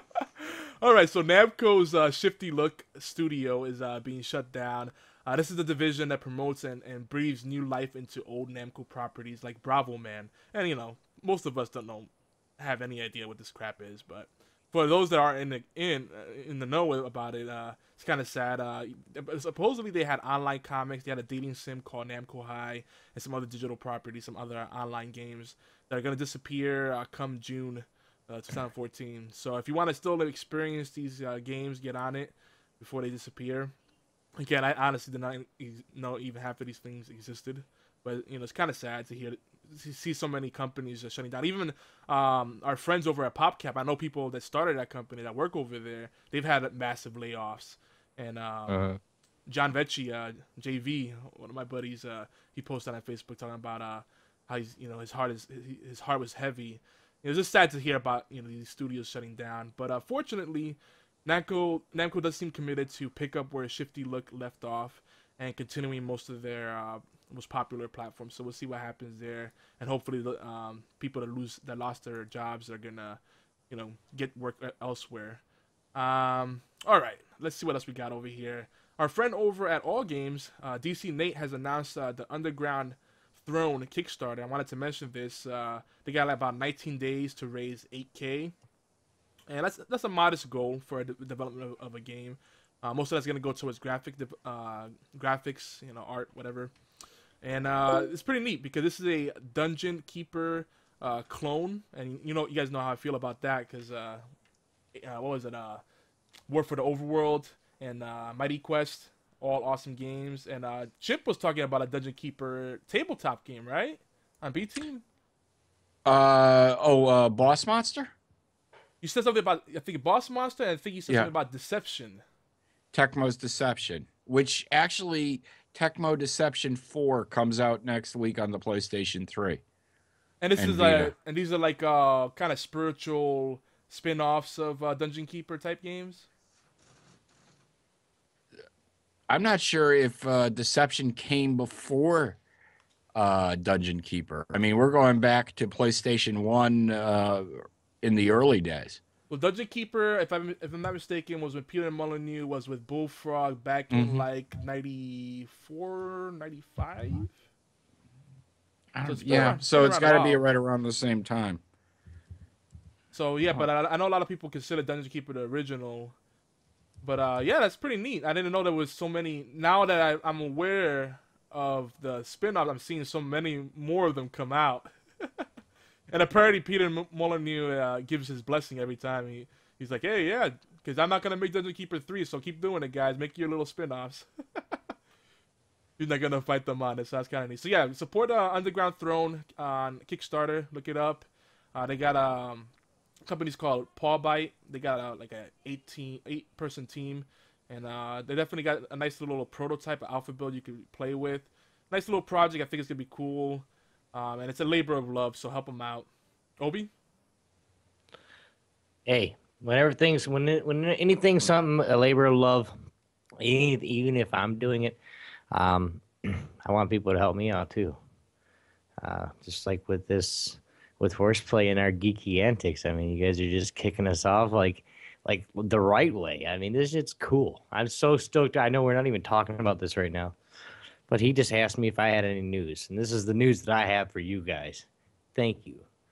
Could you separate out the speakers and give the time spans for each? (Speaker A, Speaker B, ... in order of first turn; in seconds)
Speaker A: 0.2-33.7, 34.4-48.8, 49.5-73.2, 73.7-75.4, 76.0-88.5, 89.5-96.7, 97.4-104.2, 104.9-105.8, 106.5-115.0, 119.0-122.2, 130.4-136.3, 149.3-157.3, 159.1-160.4, 163.1-166.2, 167.0-174.9, 176.1-184.3, 186.0-192.7, 193.2-206.1, 206.6-206.9
Speaker B: 48.7-49.0, 209.1-212.8, 213.4-215.0, 215.5-218.0, 219.0-230.4, 231.1-235.9
Speaker C: 116.0-118.1, 122.9-129.6, 130.6-131.1, 139.3-142.4, 143.2-149.0, 153.9-154.2, 158.9-161.6